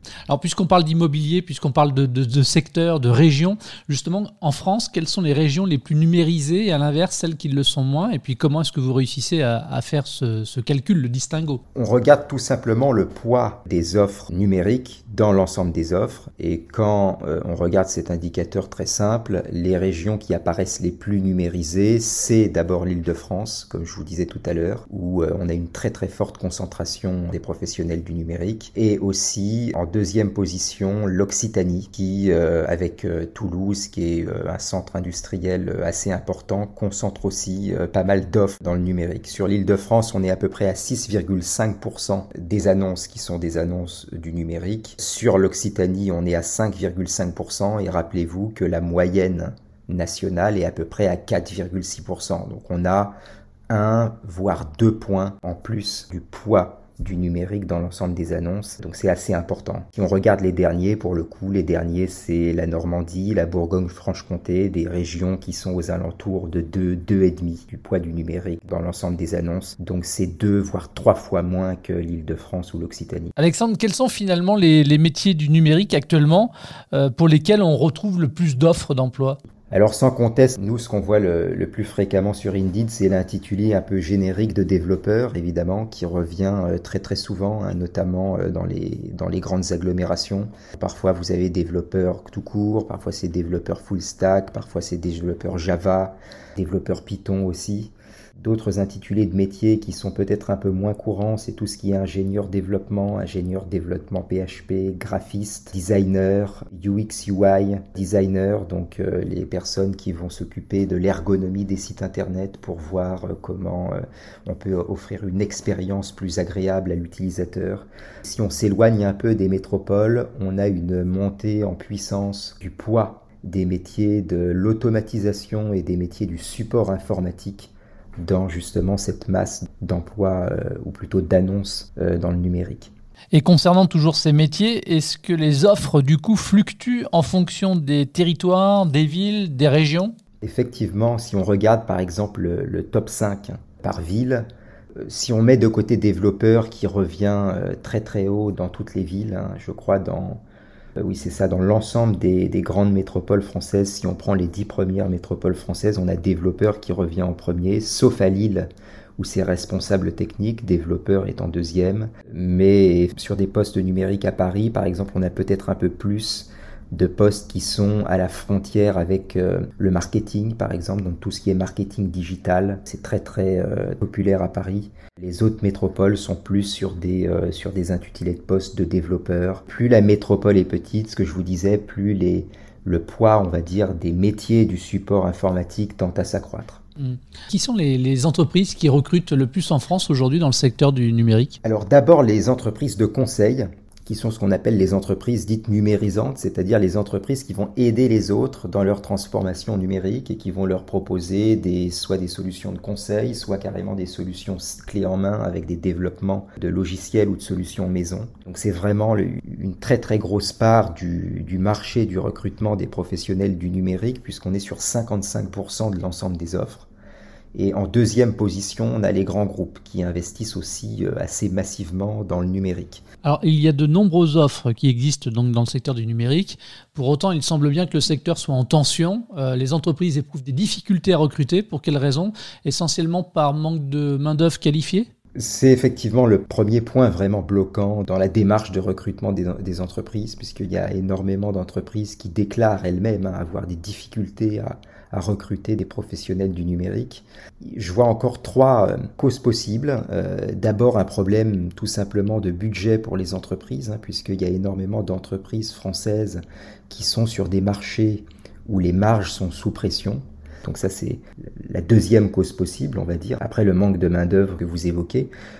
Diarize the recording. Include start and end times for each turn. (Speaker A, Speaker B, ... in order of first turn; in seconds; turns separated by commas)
Speaker A: 0.3-11.6, Speaker B: 11.7-53.1, Speaker B: 53.7-73.3, Speaker A: 73.4-79.4, Speaker B: 79.7-132.9, Speaker A: 133.3-140.1, Speaker B: 140.4-144.4, Speaker B: 145.0-150.4, Speaker B: 151.0-186.8, Speaker A: 187.0-191.6, Speaker B: 191.6-216.9, Speaker B: 217.5-223.0, Speaker A: 223.2-235.1, Speaker B: 235.3-265.3